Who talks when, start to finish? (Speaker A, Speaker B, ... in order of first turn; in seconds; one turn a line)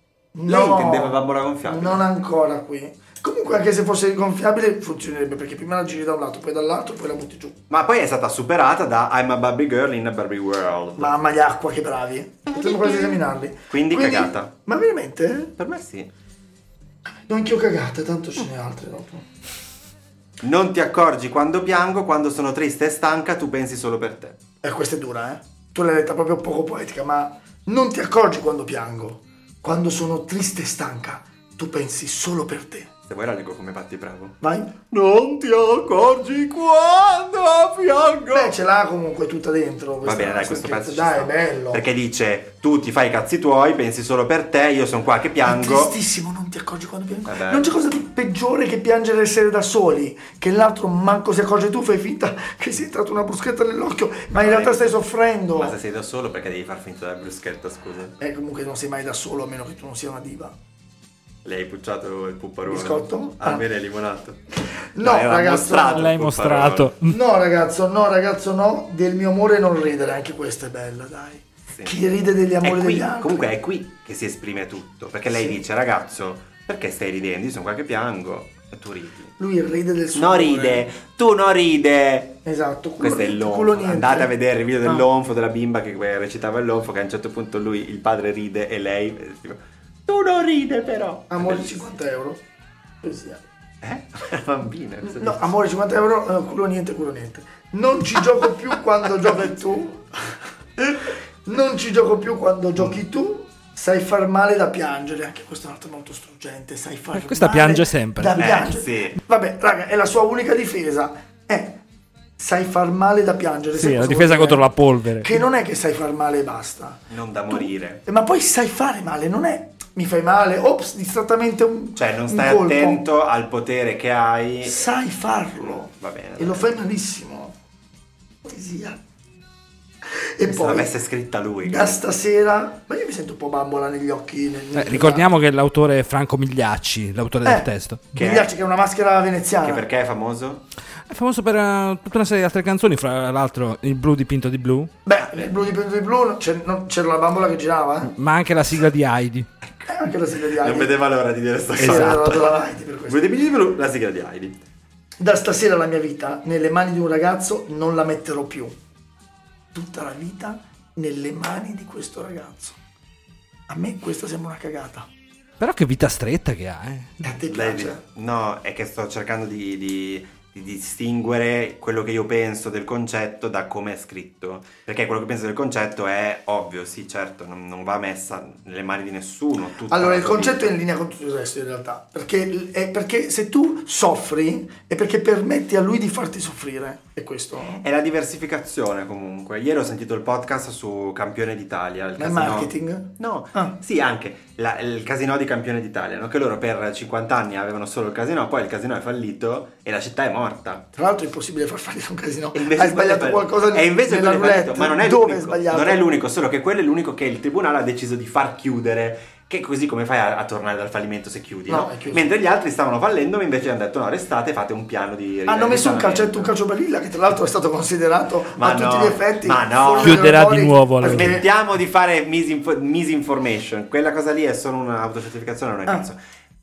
Speaker A: 0.3-7.6
Speaker B: 0.5-2.1
Speaker B: 7.7-11.2
Speaker A: 11.0-15.5
Speaker B: 13.7-14.5
Speaker B: 15.6-16.1
Speaker A: 17.3-19.2
Speaker B: 20.4-24.4
Speaker A: 24.6-32.9
Speaker B: 33.1-34.4
Speaker A: 34.4-34.7
Speaker B: 34.9-38.5
Speaker A: 38.3-41.8
Speaker B: 40.0-45.9
Speaker A: 45.4-55.8
Speaker B: 47.2-47.9
Speaker B: 54.3-55.0
Speaker B: 55.5-58.2
Speaker A: 58.2-60.5
Speaker B: 61.5-64.4
Speaker A: 62.7-63.6
Speaker A: 64.9-66.1
Speaker B: 65.0-66.9
Speaker C: 65.9-67.2
Speaker A: 67.1-73.5
Speaker B: 72.6-79.3
Speaker A: 75.3-75.6
Speaker A: 79.4-80.9
Speaker B: 80.1-82.4
Speaker A: 82.5-84.3
Speaker B: 83.0-91.8
Speaker A: 91.3-92.4
Speaker A: 93.0-93.4
Speaker B: 93.8-95.5
Speaker A: 95.0-100.1
Speaker B: 99.2-99.6
Speaker A: 100.8-111.8
Speaker C: 107.2-108.4
Speaker B: 108.3-109.2
Speaker A: 112.4-114.7
Speaker C: 113.8-115.4
Speaker A: 115.2-123.0
Speaker B: 117.1-118.0
Speaker B: 122.0-124.9
Speaker A: 124.7-127.5
Speaker B: 125.9-126.8
Speaker A: 128.4-129.0
Speaker A: 130.4-131.0
Speaker B: 130.5-132.0
Speaker A: 131.6-135.3
Speaker C: 134.8-138.1
Speaker A: 137.4-139.9
Speaker B: 138.2-138.5
Speaker B: 139.6-140.6
Speaker C: 141.1-144.9
Speaker A: 145.1-148.1
Speaker C: 148.2-149.5
Speaker A: 149.9-151.0
Speaker B: 150.6-152.4
Speaker C: 151.8-152.3
Speaker A: 151.8-153.2
Speaker B: 153.1-154.6
Speaker A: 155.2-158.8
Speaker A: 159.7-162.8
Speaker A: 163.7-165.1
Speaker C: 165.6-167.2
Speaker A: 167.2-168.0
Speaker B: 167.5-180.7
Speaker A: 179.9-187.8
Speaker B: 187.6-200.9
Speaker A: 192.2-193.8
Speaker A: 200.9-206.1
Speaker B: 202.5-216.5
Speaker A: 211.7-212.2
Speaker A: 215.5-221.4
Speaker B: 218.6-220.2
Speaker C: 220.0-221.4
Speaker B: 221.0-226.2